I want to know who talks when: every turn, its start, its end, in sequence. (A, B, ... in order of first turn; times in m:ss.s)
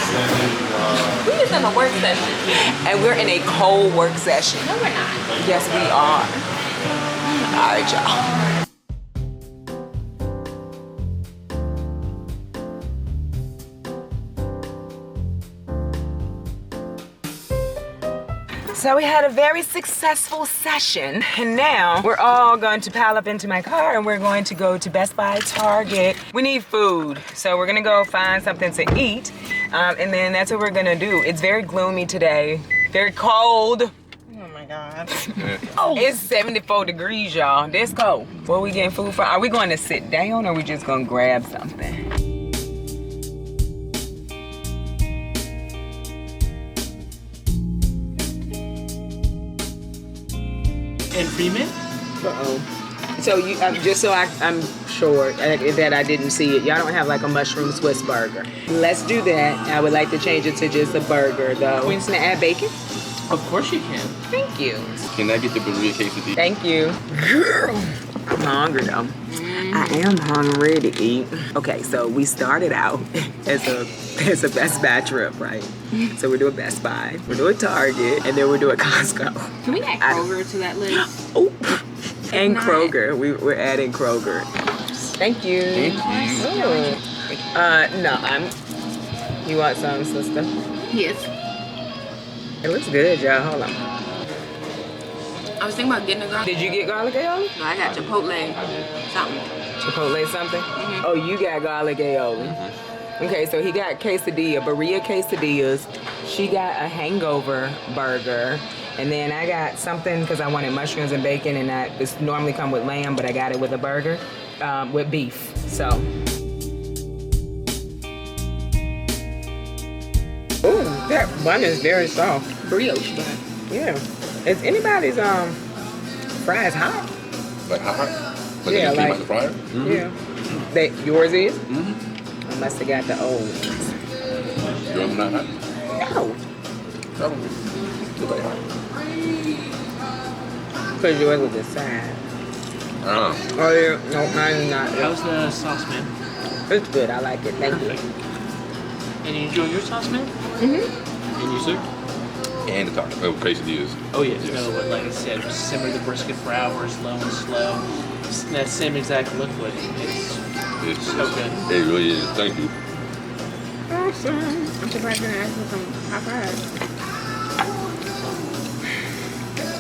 0:01.1-0:02.5 A
0:02.5-0:04.7 B
0:04.6-0:05.3 A
0:05.4-0:06.4 B
0:07.3-0:08.2 B
0:18.7-0:33.9 B
0:34.3-0:36.0 A
0:35.8-0:42.0 B
0:51.1-0:51.8 C
0:52.2-0:52.7 B
0:53.2-1:02.7 B
1:03.3-1:04.2 C
1:04.3-1:05.0 B
1:05.1-1:06.4 D
1:06.4-1:20.3 B
1:09.3-1:10.0 A
1:19.6-1:21.1 A
1:20.9-1:24.5 B
1:22.3-1:23.0 A
1:25.2-1:27.0 B
1:25.7-1:26.5 D
1:26.1-1:27.0 A
1:27.5-1:28.5 B
1:29.4-1:30.5 B
1:30.9-1:31.3 A
1:32.6-1:33.8 B
1:35.6-1:36.5 A
1:36.4-1:37.5 B
1:37.6-1:39.5 A
1:37.8-1:38.9 D
1:39.8-1:42.6 B
1:40.8-1:41.1 A
1:42.4-1:42.8 D
1:43.2-1:56.1 B
2:00.6-2:02.5 B
2:02.6-2:03.4 A
2:03.7-2:05.6 B
2:06.4-2:07.1 B
2:07.7-2:10.0 D
2:08.6-2:10.2 B
2:10.7-2:11.6 B
2:11.7-2:12.0 D
2:12.5-2:13.9 B
2:14.9-2:15.6 D
2:16.0-2:16.4 B
2:17.2-2:18.6 D
2:21.0-2:22.2 B
2:23.0-2:23.5 D
2:23.5-2:25.2 B
2:24.9-2:26.1 C
2:26.7-2:28.0 B
2:29.2-2:30.3 C
2:30.6-2:30.9 A
2:31.4-2:31.8 D
2:32.7-2:34.7 D
2:34.1-2:40.4 C
2:40.8-2:42.7 D
2:41.1-2:41.6 C
2:43.9-2:44.7 B
2:44.8-2:46.6 A